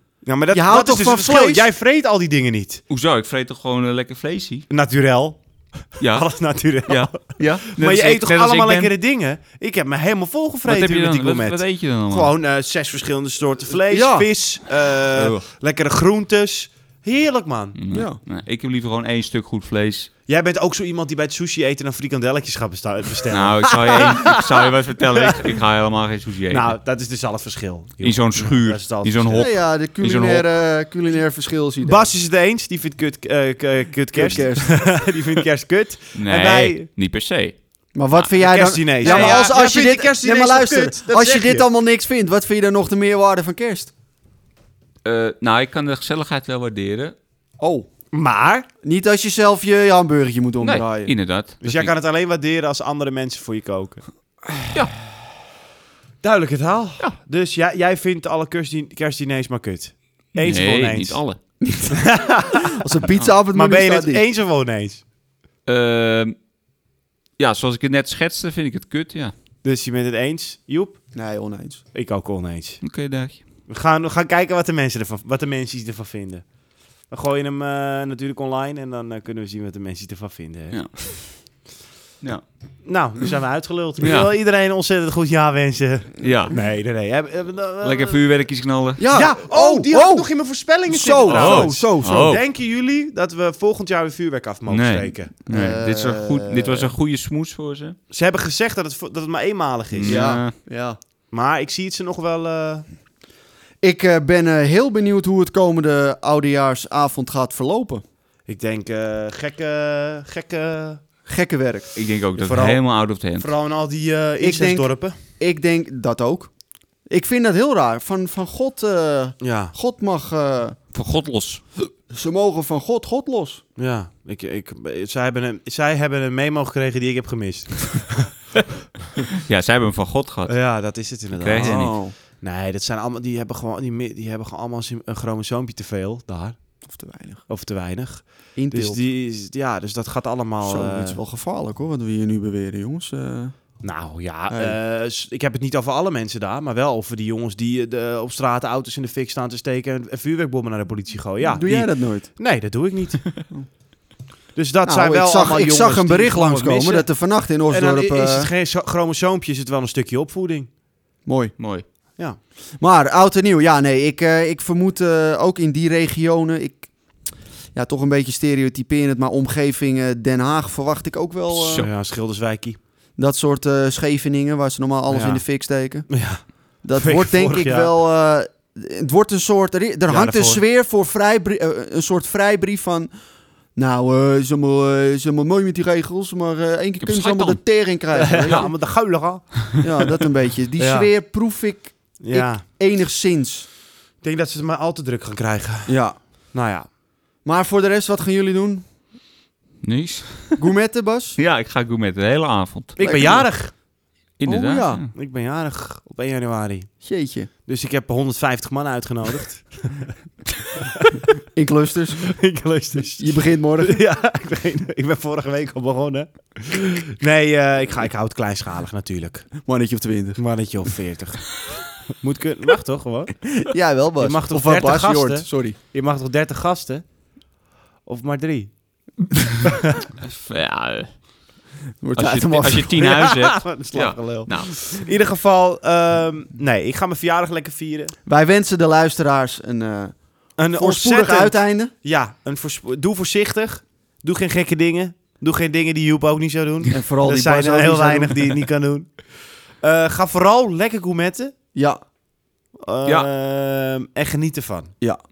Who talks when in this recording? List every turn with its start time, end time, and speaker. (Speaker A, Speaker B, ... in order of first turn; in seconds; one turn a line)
Speaker A: 0.3-2.8
Speaker B: 0.5-1.7
Speaker C: 2.9-4.7
Speaker A: 4.7-5.4
Speaker A: 5.9-17.8
Speaker C: 6.0-8.9
Speaker C: 10.7-12.3
Speaker B: 13.9-14.3
Speaker C: 15.2-15.5
Speaker C: 17.8-20.1
Speaker B: 17.9-18.2
Speaker A: 20.3-25.5
Speaker C: 23.3-26.8
Speaker A: 26.5-29.5
Speaker C: 28.0-30.5
Speaker B: 29.3-32.1
Speaker A: 31.8-36.9
Speaker B: 34.1-34.8
Speaker C: 36.1-37.5
Speaker B: 38.0-43.9
Speaker A: 38.4-41.7
Speaker C: 39.0-39.5
Speaker C: 45.0-47.1
Speaker B: 47.6-47.9
Speaker A: 48.1-48.7
Speaker B: 48.8-51.1
Speaker C: 50.6-51.9
Speaker A: 51.6-54.0
Speaker A: 56.2-61.2
Speaker C: 60.4-61.4
Speaker B: 61.6-62.0
Speaker A: 61.9-62.8
Speaker B: 62.7-64.2
Speaker A: 63.5-65.0
Speaker C: 65.7-66.3
Speaker C: 67.4-69.3
Speaker A: 69.6-71.0
Speaker B: 71.1-71.8
Speaker A: 71.9-72.8
Speaker C: 72.8-73.4
Speaker A: 73.7-76.5
Speaker A: 77.1-80.8
Speaker C: 80.7-81.0
Speaker A: 82.8-88.2
Speaker C: 84.0-84.3
Speaker C: 86.2-86.6
Speaker C: 87.8-89.1
Speaker B: 89.0-90.3
Speaker A: 89.1-95.3
Speaker B: 90.8-92.4
Speaker C: 91.3-92.4
Speaker C: 94.7-98.0
Speaker B: 95.5-96.9
Speaker A: 98.1-100.2
Speaker C: 100.0-100.5
Speaker B: 100.1-101.0
Speaker A: 101.3-102.8
Speaker B: 103.8-108.0
Speaker A: 108.5-111.0
Speaker B: 111.3-111.9
Speaker C: 112.0-113.5
Speaker A: 112.4-112.8
Speaker A: 113.3-115.2
Speaker B: 114.4-116.5
Speaker B: 117.1-120.8
Speaker A: 119.4-119.8
Speaker C: 120.9-121.6
Speaker B: 122.1-123.6
Speaker A: 123.8-128.3
Speaker C: 129.3-130.7
Speaker A: 130.5-136.6
Speaker C: 131.3-132.0
Speaker B: 131.6-132.2
Speaker B: 136.9-137.4
Speaker A: 137.5-141.2
Speaker B: 138.6-139.0
Speaker B: 140.6-143.8
Speaker A: 143.8-153.4
Speaker B: 144.5-144.8
Speaker B: 151.6-152.3
Speaker A: 154.6-157.1
Speaker B: 154.8-158.5
Speaker A: 157.7-160.7
Speaker B: 161.3-161.5
Speaker C: 161.6-161.8
Speaker B: 162.8-166.9
Speaker B: 167.7-171.9
Speaker C: 171.5-171.9
Speaker A: 171.8-172.8
Speaker B: 173.2-176.3
Speaker A: 175.1-175.4
Speaker A: 176.1-178.0
Speaker B: 176.8-183.1
Speaker A: 180.1-180.6
Speaker B: 183.8-188.7
Speaker C: 187.0-187.6
Speaker A: 188.1-189.8
Speaker B: 189.8-193.7
Speaker A: 190.8-191.1
Speaker A: 192.2-192.7
Speaker A: 194.2-196.9
Speaker B: 195.9-196.2
Speaker B: 197.4-198.8
Speaker C: 199.8-200.7
Speaker B: 200.6-201.4
Speaker C: 201.4-203.1
Speaker A: 203.0-203.7
Speaker B: 203.0-203.5
Speaker C: 204.4-205.1
Speaker B: 204.4-205.0
Speaker A: 205.1-206.9
Speaker B: 207.0-207.5
Speaker A: 207.7-210.1
Speaker A: 210.8-211.3
Speaker B: 211.5-212.3
Speaker A: 212.2-219.5
Speaker B: 213.2-214.0
Speaker B: 219.6-220.4
Speaker A: 220.4-221.5
Speaker A: 222.1-223.3
Speaker B: 223.5-225.8
Speaker A: 224.2-227.1
Speaker A: 228.1-228.7
Speaker C: 230.2-231.2
Speaker B: 232.0-233.1
Speaker C: 232.2-234.8
Speaker A: 233.0-238.1
Speaker B: 238.3-241.9
Speaker A: 240.6-251.5
Speaker B: 246.9-248.5
Speaker B: 251.7-252.0
Speaker A: 252.8-254.9